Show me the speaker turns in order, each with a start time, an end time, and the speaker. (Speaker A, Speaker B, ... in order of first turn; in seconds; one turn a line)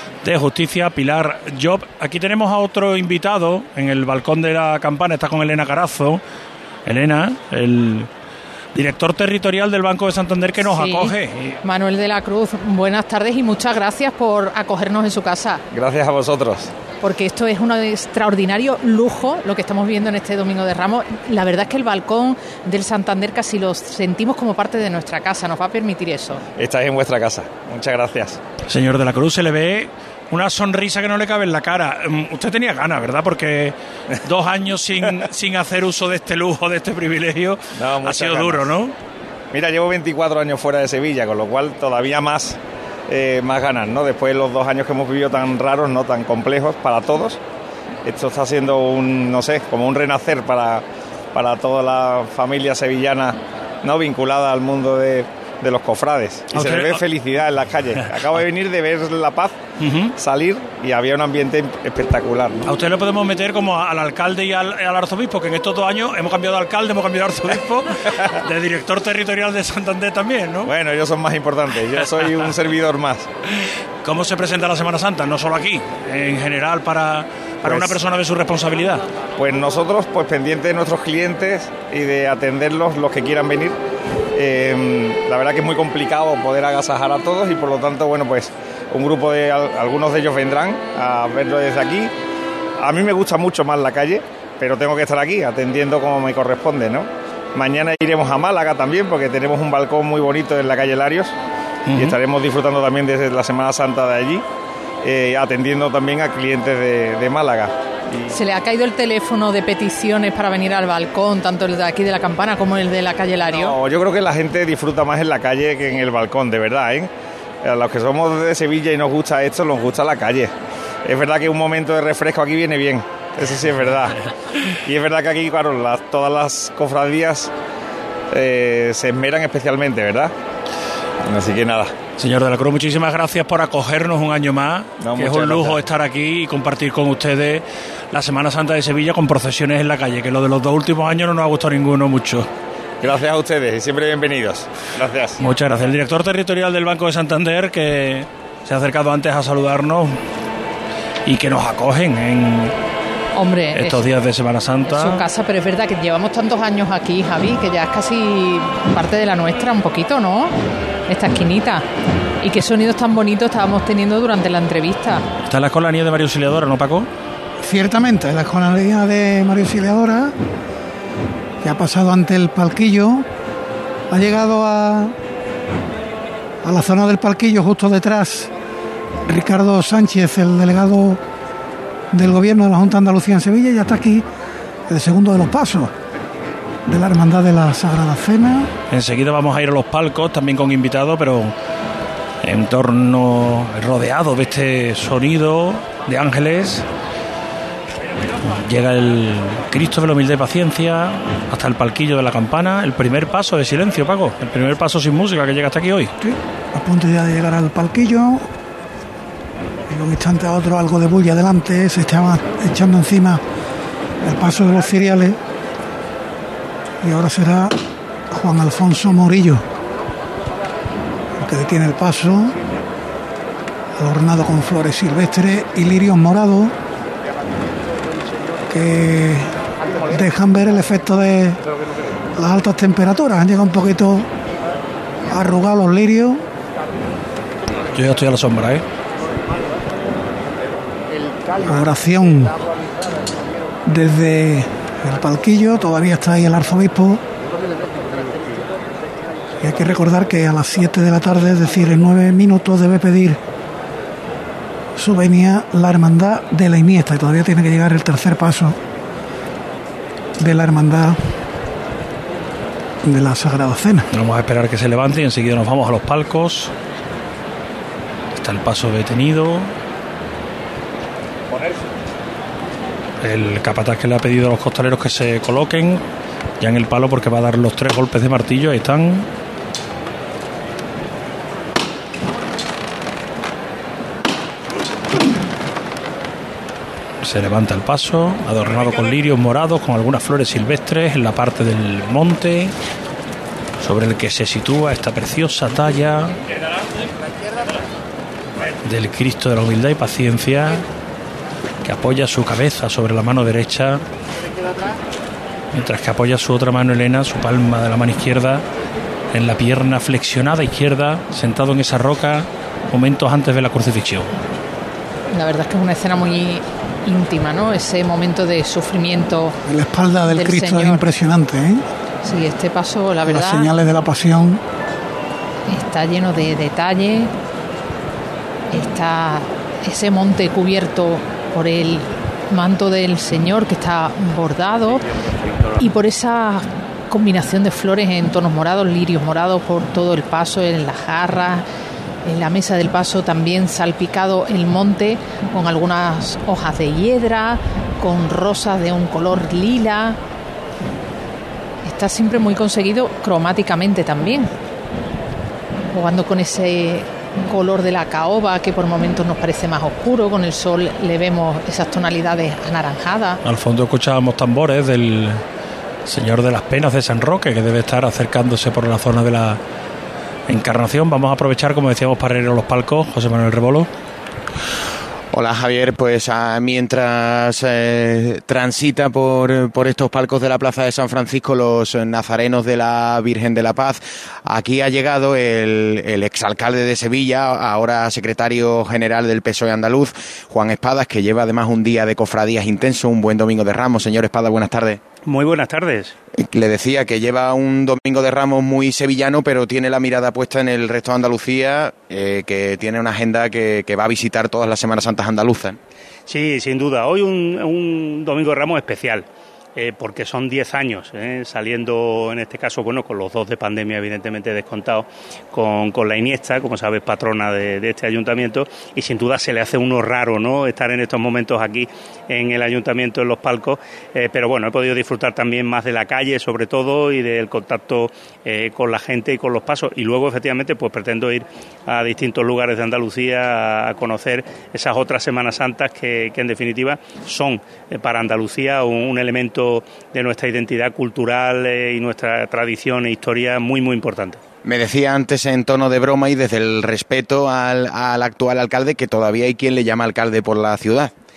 Speaker A: 0.2-6.2
Speaker A: 6.8-8.1
Speaker A: 8.7-11.6
Speaker B: 10.6-15.6
Speaker C: 15.7-16.7
Speaker B: 17.0-26.4
Speaker C: 26.6-28.4
Speaker A: 28.7-38.9
Speaker C: 37.8-38.7
Speaker C: 39.5-47.4
Speaker C: 48.0-59.6
Speaker A: 56.5-57.0
Speaker A: 58.0-58.4
Speaker A: 59.8-60.1
Speaker C: 60.2-62.7
Speaker A: 62.6-70.7
Speaker C: 70.6-73.3
Speaker A: 72.0-72.5
Speaker A: 74.0-79.0
Speaker C: 77.6-78.0
Speaker C: 79.4-83.8
Speaker C: 84.3-92.1
Speaker C: 92.8-101.3
Speaker A: 101.9-102.2
Speaker C: 101.9-104.4
Speaker C: 105.0-108.3
Speaker B: 108.3-113.8
Speaker C: 113.5-117.1
Speaker C: 117.6-120.5
Speaker C: 121.0-124.1
Speaker C: 124.8-127.5
Speaker C: 128.3-130.3
Speaker C: 131.2-131.9
Speaker A: 132.2-142.5
Speaker C: 135.0-135.8
Speaker C: 143.0-145.4
Speaker A: 145.4-150.2
Speaker A: 151.2-152.8
Speaker B: 153.3-154.0
Speaker A: 153.7-155.2
Speaker B: 154.8-160.5
Speaker B: 161.1-161.8
Speaker B: 162.4-165.2
Speaker A: 165.5-167.1
Speaker D: 167.6-170.3
Speaker D: 171.6-173.2
Speaker D: 174.1-175.1
Speaker D: 176.6-178.5
Speaker D: 179.2-181.2
Speaker D: 182.1-184.2
Speaker D: 184.9-185.9
Speaker D: 186.9-188.7
Speaker A: 188.9-191.5
Speaker A: 192.4-196.8
Speaker A: 198.4-206.1
Speaker D: 206.2-208.4
Speaker D: 209.9-213.4
Speaker D: 214.2-215.4
Speaker D: 217.0-217.7
Speaker D: 218.3-219.6
Speaker D: 221.4-222.5
Speaker D: 224.0-226.7
Speaker D: 228.7-229.5
Speaker D: 230.1-231.6
Speaker D: 232.4-234.3
Speaker D: 235.3-236.4
Speaker A: 237.9-238.8
Speaker D: 241.6-242.5
Speaker D: 243.9-247.2
Speaker D: 249.6-253.4
Speaker D: 255.0-258.8
Speaker D: 260.4-261.2
Speaker D: 263.0-264.1
Speaker A: 264.1-266.7
Speaker A: 268.4-269.7
Speaker A: 273.2-276.0
Speaker A: 276.6-279.3
Speaker A: 287.2-292.7
Speaker A: 293.8-296.4
Speaker A: 298.8-300.8
Speaker A: 301.8-304.0
Speaker A: 305.7-308.6
Speaker A: 309.3-314.3
Speaker B: 315.3-319.6
Speaker D: 319.7-321.8
Speaker B: 320.3-321.0
Speaker B: 322.2-323.7
Speaker D: 323.2-324.6
Speaker B: 325.7-327.3
Speaker B: 328.7-335.0
Speaker B: 335.8-341.6
Speaker B: 342.2-350.2
Speaker B: 351.8-354.5
Speaker B: 355.9-363.4
Speaker A: 363.4-365.4
Speaker A: 366.1-369.6
Speaker A: 370.5-373.9
Speaker E: 375.3-395.0
Speaker F: 395.2-396.1
Speaker E: 396.3-405.8
Speaker F: 406.3-409.2
Speaker F: 409.8-444.4
Speaker E: 444.6-451.1